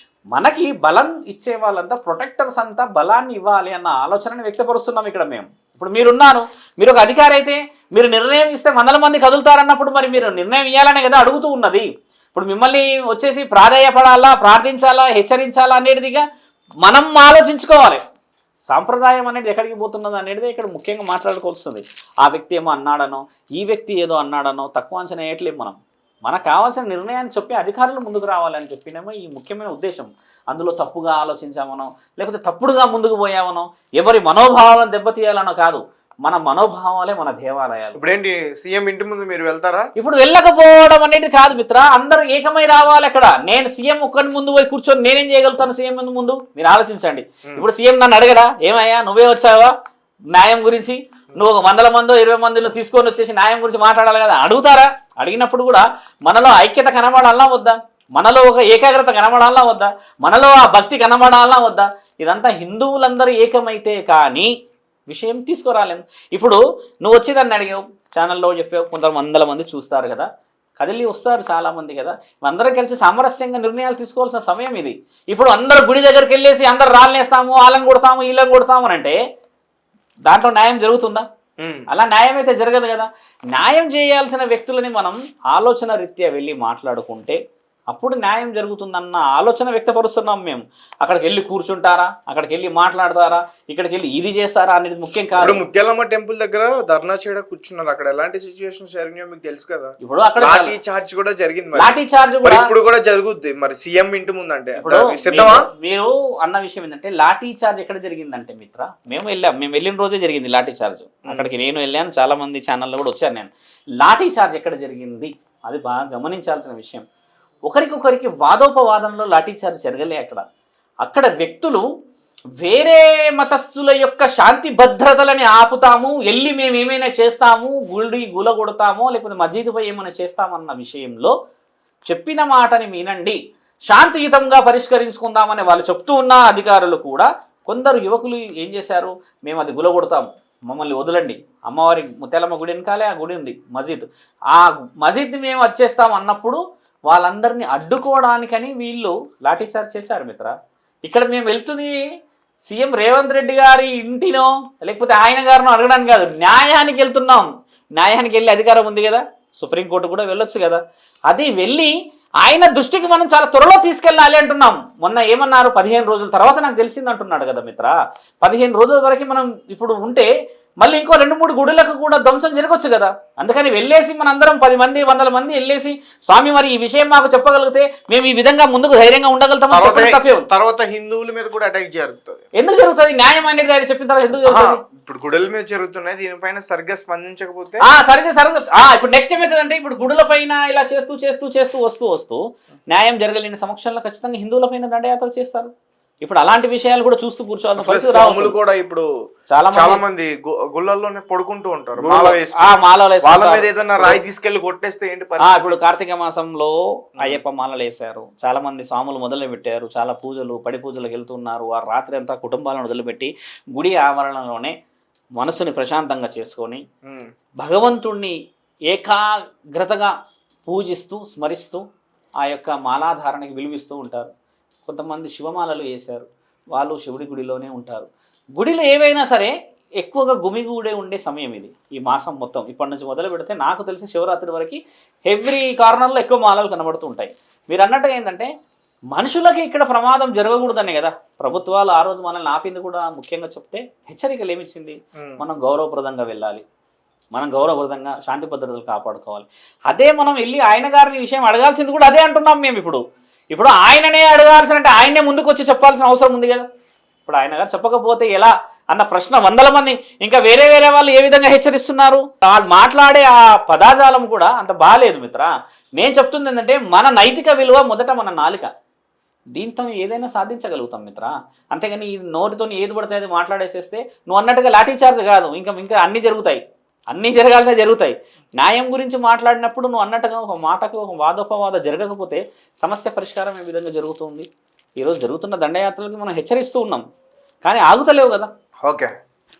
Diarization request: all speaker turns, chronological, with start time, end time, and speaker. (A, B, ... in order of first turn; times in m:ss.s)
0:00.3-0:16.2 A
0:16.8-0:18.0 A
0:18.7-0:38.0 A
0:38.0-0:39.9 B
0:40.0-0:49.7 A
0:50.3-1:04.5 A
1:05.1-1:10.3 A
1:10.8-1:19.2 A
1:20.3-1:21.2 A
1:21.6-1:21.8 B
1:21.9-1:27.4 A
1:27.9-1:35.6 A
1:35.4-1:41.9 B
1:40.0-1:40.7 A
1:41.8-1:42.6 A
1:42.4-1:45.7 B
1:44.8-1:57.0 A
1:57.7-2:00.4 A
2:01.0-2:01.8 A
2:02.6-2:11.3 A
2:12.0-2:13.4 A
2:13.9-2:30.5 A
2:31.0-2:32.0 A
2:32.7-2:50.3 A
2:50.8-3:00.4 A
2:59.7-3:02.4 B
3:02.6-3:04.8 A
3:04.4-3:07.8 B
3:07.8-3:15.7 A
3:16.2-3:18.5 A
3:17.8-3:19.0 B
3:19.5-3:20.0 A
3:19.7-3:25.7 B
3:22.0-3:24.2 A
3:25.4-3:34.7 A
3:35.4-3:36.8 A
3:37.6-3:38.3 A
3:38.9-3:40.1 A
3:40.6-3:41.8 A
3:42.4-3:44.3 A
3:44.8-3:58.5 A
3:59.1-4:06.6 A
4:07.3-4:13.0 A
4:13.5-4:16.6 A
4:17.2-4:28.7 A
4:29.5-4:44.5 A
4:45.0-4:47.0 A
4:47.6-4:48.5 A
4:48.8-4:49.1 B